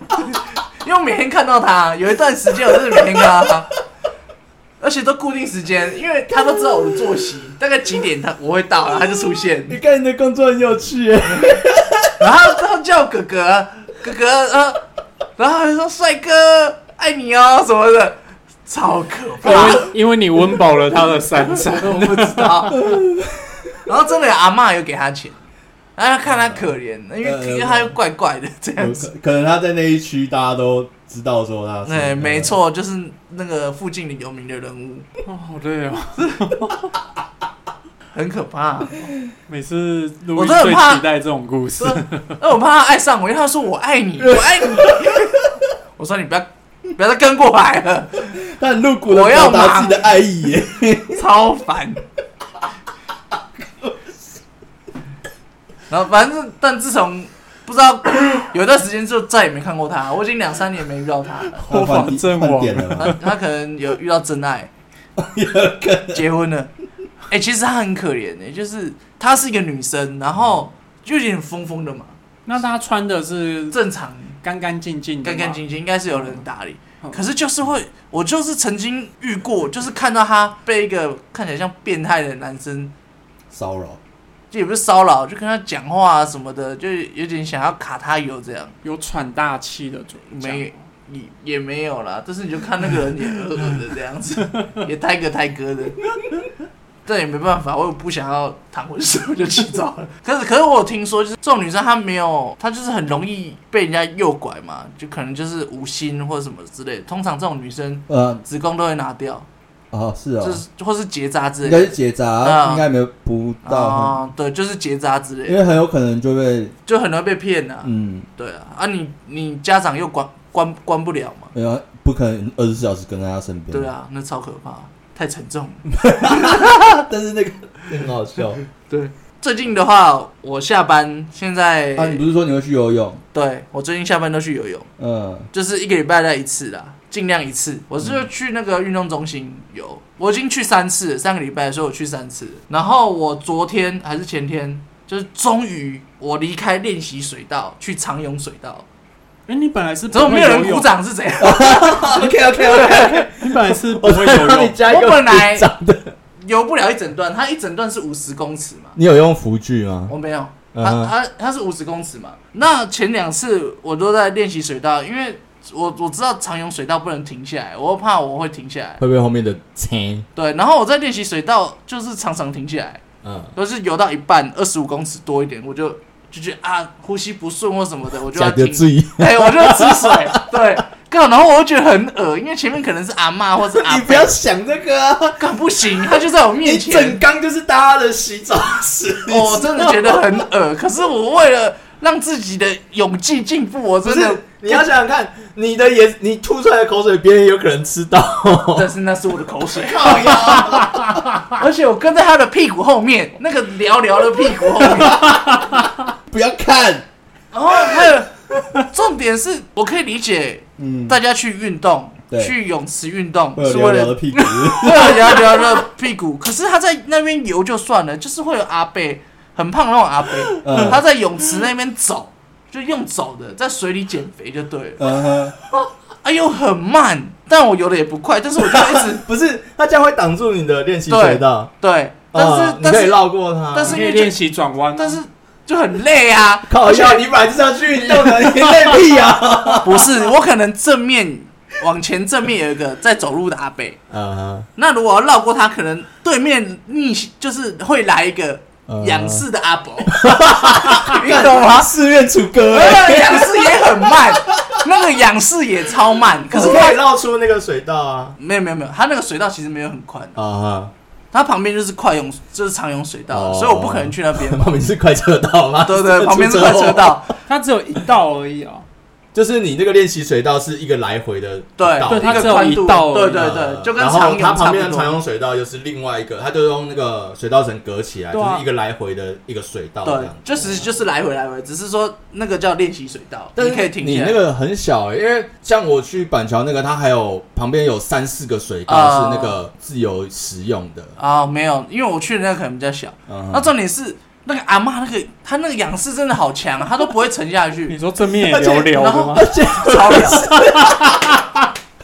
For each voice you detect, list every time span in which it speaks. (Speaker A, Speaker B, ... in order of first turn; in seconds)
Speaker A: 0.2-3.7, 4.8-9.8, 11.3-11.6, 12.2-14.8, 15.4-19.9, 21.5-22.9, 23.9-25.4, 26.0-29.1, 31.8-35.1, 38.1-39.1, 40.4-41.0, 41.8-45.5, 46.0-48.4, 49.1-50.1, 51.1-52.0, 55.9-61.6, 63.0-64.7, 66.1-66.7, 67.3-72.2, 73.7-74.3, 75.2-82.9, 84.5-88.8, 90.3-96.0, 97.1-109.5, 110.4-112.8, 113.7-115.6, 116.9-121.5, 123.7-126.7, 128.9-132.2, 133.3-134.9, 135.5-148.9, 150.1-153.2, 154.8-155.7, 156.4-159.0, 160.1-169.0, 170.3-173.0, 173.6-184.3, 185.4-187.2, 189.3-194.9, 198.7-200.8, 201.5-205.3, 207.5-225.1, 226.2-229.2, 231.1-234.3, 235.0-237.3, 239.8-244.0, 244.8-251.9, 252.6-257.0, 258.4-260.4, 261.3-264.8, 265.9-267.3, 271.8-275.2, 280.0-284.4, 288.9-289.6, 291.2-298.0, 298.5-300.7
Speaker B: 9.7-12.2, 22.8-23.8, 26.3-26.7, 27.2-28.0, 28.8-32.6, 44.2-45.3, 48.3-51.2, 61.6-63.2, 65.2-66.2, 83.5-84.0, 108.1-108.4, 109.9-110.6, 111.6-114.2, 115.5-116.8, 117.8-118.3, 121.5-123.9, 125.9-128.6, 131.9-133.2, 135.0-135.5, 138.0-138.3, 151.4-156.1, 159.0-160.1, 160.7-161.1, 169.0-170.3, 173.2-173.5, 178.3-180.6, 183.7-190.4, 194.0-198.9, 199.7-201.3, 204.8-207.1, 210.8-211.2, 212.3-212.6, 213.6-215.8, 220.5-221.0, 225.0-225.6, 228.6-231.7, 232.3-234.0, 236.7-240.1, 244.1-244.7, 248.9-249.4, 250.1-254.9, 256.5-258.4, 260.4-260.9, 263.3-267.4, 269.3-272.7, 273.3-280.8, 283.6-291.2, 293.3-293.7, 298.5-301.4
Speaker C: 19.4-22.9, 35.3-36.7, 39.5-42.4, 61.6-63.2, 72.5-73.8, 74.4-75.6, 76.1-76.4, 88.8-90.7, 149.5-150.9, 153.3-154.8, 200.6-201.2, 233.9-235.2, 238.5-239.0, 267.5-268.9, 272.1-273.4, 278.3-278.6, 297.9-299.5, 300.5-301.2